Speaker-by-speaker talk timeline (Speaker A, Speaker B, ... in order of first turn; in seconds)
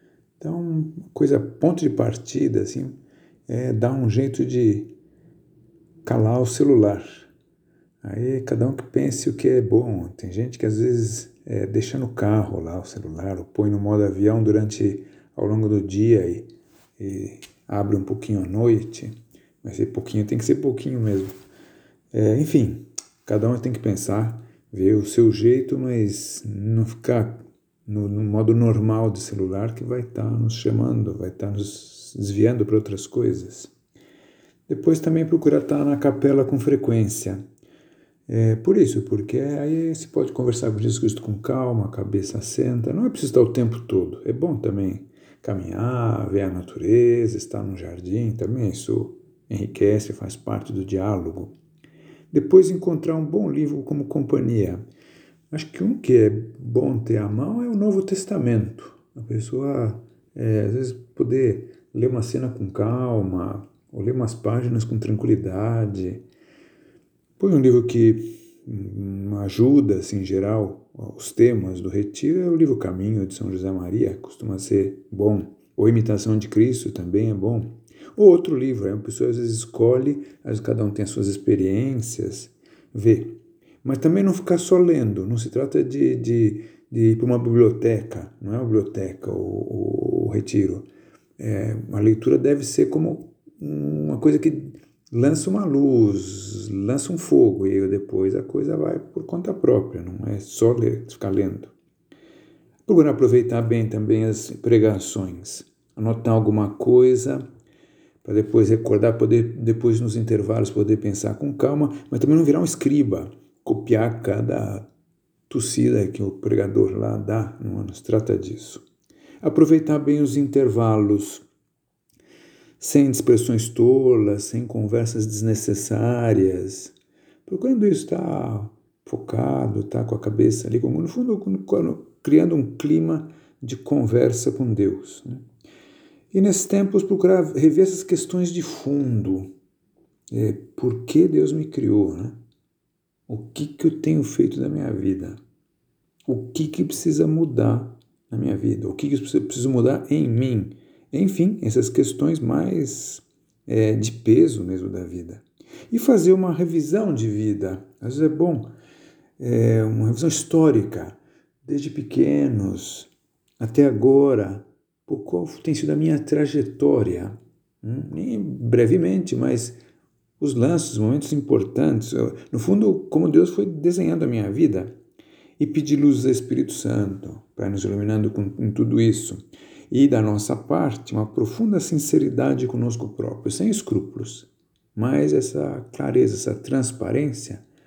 Speaker A: 0.4-2.9, 3.5-4.9, 6.0-7.3, 8.0-21.3, 22.1-33.7, 34.7-37.4, 38.3-51.5, 52.3-54.8, 55.5-66.2, 67.4-90.9, 91.4-101.7, 102.8-107.4, 108.2-114.9, 115.5-118.8, 119.4-121.4, 122.8-126.9, 127.4-135.4, 136.3-139.5, 140.3-142.4, 143.3-145.4, 146.3-158.7, 159.4-169.8, 170.4-174.9, 175.6-187.6